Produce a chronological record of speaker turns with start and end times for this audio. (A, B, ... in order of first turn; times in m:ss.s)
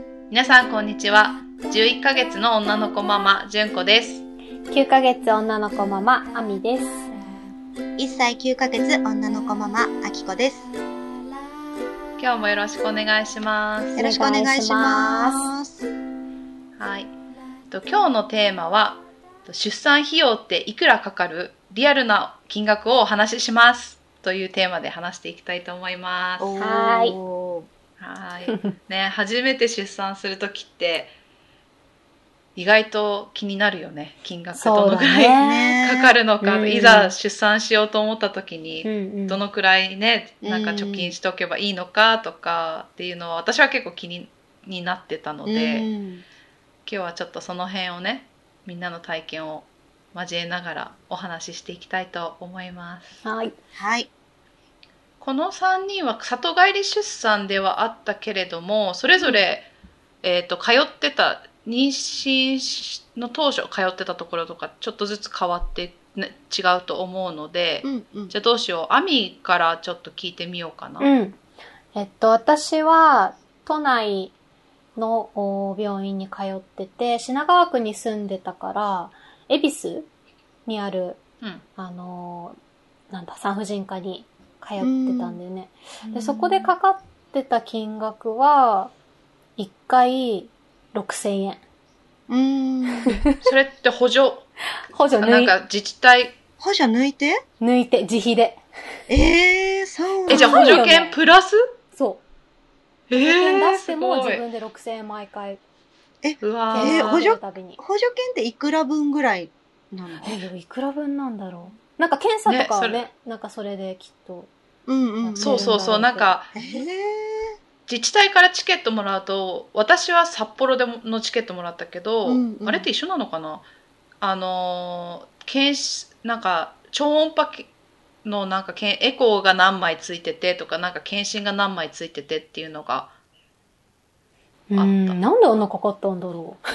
0:00.3-0:04.2 A
0:04.7-0:07.1 B
0:08.0-0:10.7 C
0:12.2-0:14.0 A
0:13.9-0:15.5 B
0:14.0-0:15.8 C
0:16.8-0:17.1 A
0:17.7-0:26.5 A
0:26.4-0:27.7 C
0:26.6-0:27.2 B
0:28.0-0:31.1 A
0:32.6-0:45.8 A
0:34.5-0:35.8 B
0:35.4-0:36.2 C
0:36.4-0:37.1 B
0:38.8-0:39.4 B
0:40.4-0:41.1 C
0:45.4-0:46.2 C
0:46.8-0:53.2 A
0:53.2-0:53.5 B
0:53.8-0:54.1 C
0:55.2-0:59.7 A
1:00.2-1:11.1 A
1:07.8-1:08.3 C
1:11.0-1:11.4 B
1:11.9-1:14.3 B
1:15.0-1:20.1 B
1:20.6-1:21.2 B
1:21.8-1:22.6 B
1:23.1-1:28.9 B
1:24.8-1:25.4 C
1:26.0-1:26.7 C
1:29.6-1:31.6 B
1:32.3-1:33.2 C
1:33.4-1:34.5 A
1:34.9-1:35.5 B
1:35.2-1:36.4 A
1:36.6-1:37.4 C
1:37.6-1:38.6 B
1:39.1-1:40.7 C
1:40.3-1:41.2 B
1:40.3-1:41.6 A
1:41.9-1:42.2 B
1:43.1-1:44.4 A
1:43.2-1:45.6 B
1:46.2-1:50.4 C
1:46.4-1:47.2 A
1:46.7-1:47.8 B
1:50.2-1:54.5 B
1:52.4-1:53.1 A
1:54.8-1:55.8 C
1:55.2-1:56.8 B
1:55.4-1:56.5 A
1:56.5-1:57.6 C
1:57.9-2:03.6 A
2:02.2-2:02.9 C
2:04.2-2:07.7 A
2:08.2-2:13.1 A
2:14.7-2:16.6 B
2:14.7-2:15.2 A